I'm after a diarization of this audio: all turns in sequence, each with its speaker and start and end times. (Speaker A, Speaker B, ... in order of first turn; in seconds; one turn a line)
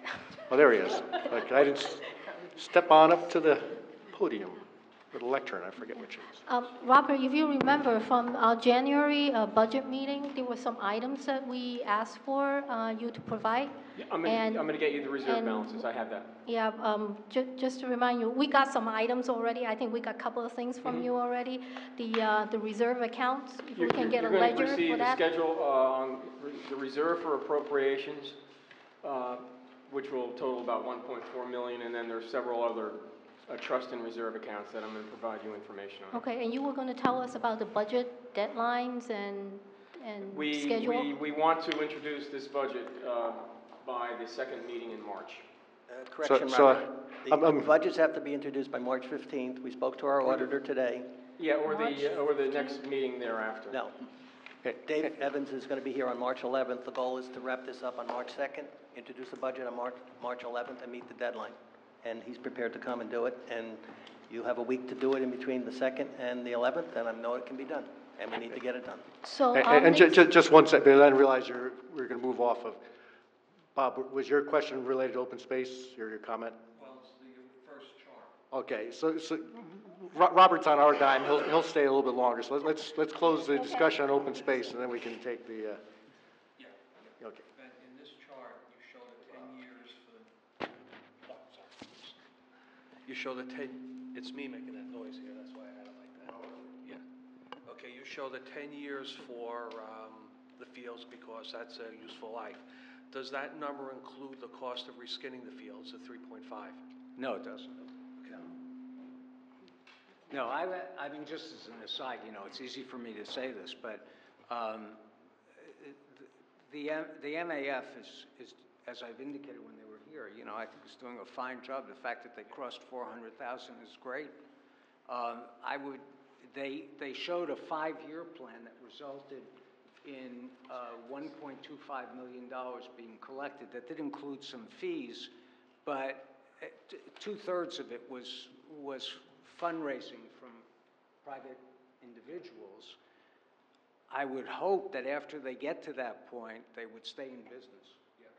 Speaker A: 0.5-6.5
Speaker B: 6.5-14.7
Speaker C: 14.0-16.3
Speaker B: 15.2-15.9
Speaker B: 16.4-25.2
Speaker C: 23.8-28.4
Speaker C: 29.0-36.2
Speaker B: 36.1-41.2
Speaker C: 40.3-45.4
Speaker D: 45.9-51.1
Speaker A: 46.2-47.7
Speaker C: 51.4-53.8
Speaker B: 51.6-52.8
Speaker D: 53.7-54.0
Speaker D: 54.8-69.0
Speaker B: 69.2-70.2
Speaker A: 69.5-72.8
Speaker A: 73.8-76.6
Speaker E: 76.7-78.3
Speaker A: 78.5-85.8
Speaker B: 83.5-84.0
Speaker A: 87.2-87.5
Speaker E: 87.6-90.3
Speaker E: 91.2-92.2
Speaker E: 93.1-97.0
Speaker E: 97.7-106.8
Speaker F: 107.2-107.8
Speaker E: 108.2-108.5
Speaker F: 110.3-115.0
Speaker F: 115.6-124.4
Speaker F: 125.1-129.5
Speaker F: 130.0-135.3
Speaker F: 135.8-140.7
Speaker F: 141.2-143.0
Speaker F: 144.1-148.0